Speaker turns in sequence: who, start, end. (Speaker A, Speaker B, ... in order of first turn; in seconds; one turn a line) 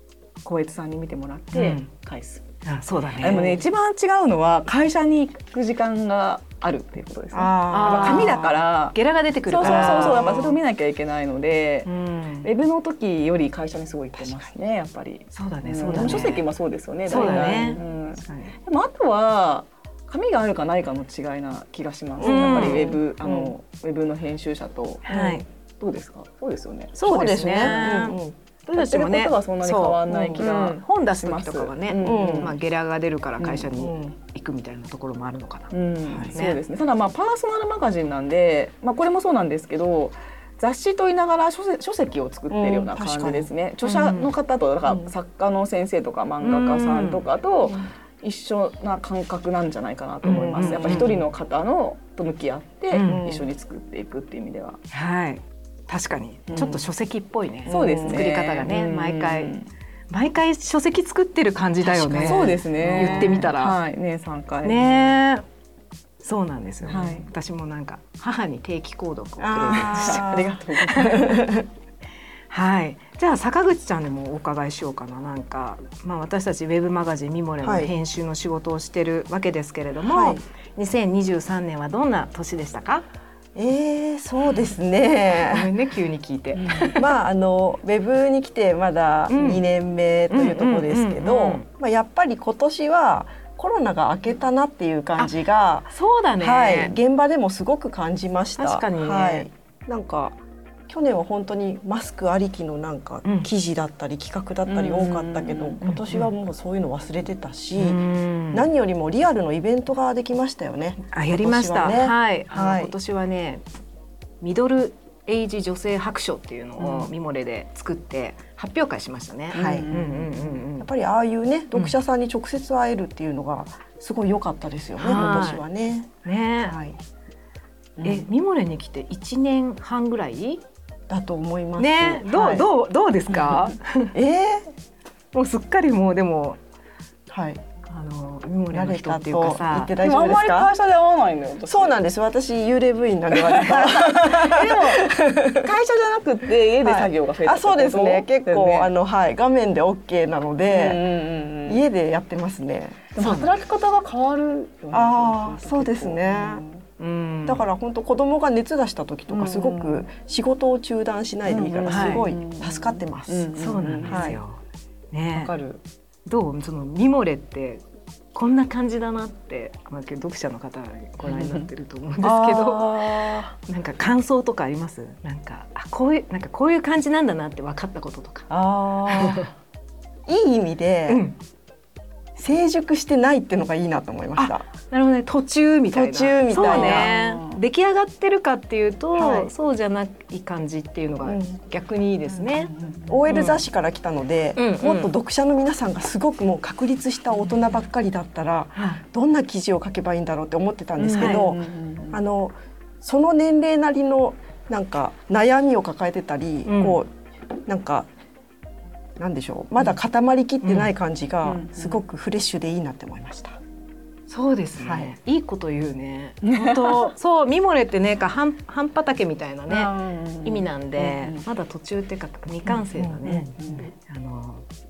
Speaker A: 0.4-2.5
Speaker B: 1.5-1.9
Speaker B: 2.6-3.6
Speaker A: 3.2-28.1
Speaker C: 7.3-8.6
Speaker B: 7.7-10.6
Speaker C: 9.6-10.4
Speaker B: 11.9-12.5
Speaker B: 15.3-16.5
Speaker B: 17.1-18.5
Speaker C: 17.1-17.7
Speaker C: 22.2-23.5
Speaker B: 22.2-23.0
Speaker B: 25.1-25.4
Speaker C: 25.1-25.4
Speaker B: 27.0-35.7
Speaker C: 27.0-28.4
Speaker A: 28.7-32.6
Speaker C: 30.1-30.5
Speaker C: 32.0-32.5
Speaker C: 33.4-34.1
Speaker A: 35.7-54.8
Speaker C: 36.1-36.4
Speaker B: 36.3-36.6
Speaker C: 42.5-43.5
Speaker B: 43.8-44.3
Speaker B: 46.4-47.2
Speaker B: 50.2-51.2
Speaker C: 50.3-51.2
Speaker B: 52.9-53.3
Speaker C: 53.0-53.5
Speaker B: 54.9-59.5
Speaker A: 56.5-56.9
Speaker A: 57.7-59.7
Speaker C: 57.7-58.3
Speaker B: 60.1-63.8
Speaker A: 61.9-65.2
Speaker C: 62.8-63.5
Speaker B: 64.6-65.5
Speaker B: 66.2-71.3
Speaker A: 66.9-67.3
Speaker C: 69.4-71.7
Speaker A: 69.7-71.5
Speaker B: 72.5-83.1
Speaker C: 77.6-77.9
Speaker C: 80.0-80.4
Speaker C: 83.5-85.7
Speaker B: 85.5-87.2
Speaker A: 86.6-86.9
Speaker C: 87.0-112.9
Speaker B: 89.3-89.7
Speaker B: 90.3-91.7
Speaker B: 95.9-97.0
Speaker B: 98.6-99.5
Speaker B: 103.2-103.5
Speaker A: 104.7-105.8
Speaker B: 105.8-106.3
Speaker B: 107.8-108.7
Speaker B: 111.1-113.6
Speaker B: 114.4-120.9
Speaker C: 116.8-117.1
Speaker A: 119.5-120.4
Speaker C: 119.5-120.0
Speaker C: 120.6-126.1
Speaker B: 125.0-125.6
Speaker B: 126.2-126.8
Speaker C: 126.6-127.0
Speaker C: 128.0-128.3
Speaker B: 128.0-130.6
Speaker C: 131.1-132.7
Speaker B: 131.8-134.2
Speaker C: 133.3-133.6
Speaker C: 134.1-134.7
Speaker B: 135.3-136.6
Speaker C: 137.3-137.6
Speaker B: 137.9-140.1
Speaker C: 138.7-140.7
Speaker A: 140.0-142.0
Speaker C: 141.7-145.7
Speaker A: 143.3-148.9
Speaker C: 146.8-153.1
Speaker A: 150.7-151.8
Speaker A: 153.1-156.8
Speaker B: 153.2-153.5
Speaker C: 154.9-156.6
Speaker B: 157.0-157.6
Speaker C: 157.4-163.5
Speaker A: 159.3-160.1
Speaker A: 161.5-164.4
Speaker B: 161.9-162.3
Speaker B: 163.6-164.6
Speaker C: 164.1-164.4
Speaker B: 165.1-165.5
Speaker A: 165.3-165.8
Speaker B: 166.3-167.8
Speaker B: 168.3-178.5
Speaker C: 172.2-173.6
Speaker C: 178.5-179.5
Speaker B: 179.1-179.5
Speaker C: 180.3-181.3
Speaker B: 181.1-181.4
Speaker C: 182.4-184.7
Speaker B: 184.4-192.7
Speaker C: 185.9-187.3
Speaker A: 186.5-187.5
Speaker C: 189.2-189.5
Speaker C: 191.2-191.6
Speaker C: 193.1-207.1
Speaker B: 193.2-193.6
Speaker B: 194.6-195.1
Speaker B: 198.8-199.0
Speaker A: 201.0-202.2
Speaker B: 201.1-201.6
Speaker B: 206.7-207.0
Speaker C: 207.7-208.1
Speaker C: 209.2-213.6
Speaker B: 210.6-210.9
Speaker A: 211.4-212.0
Speaker B: 214.3-224.7
Speaker C: 214.8-215.1
Speaker A: 216.4-217.1
Speaker A: 219.7-221.4
Speaker C: 222.9-223.8
Speaker A: 223.6-223.8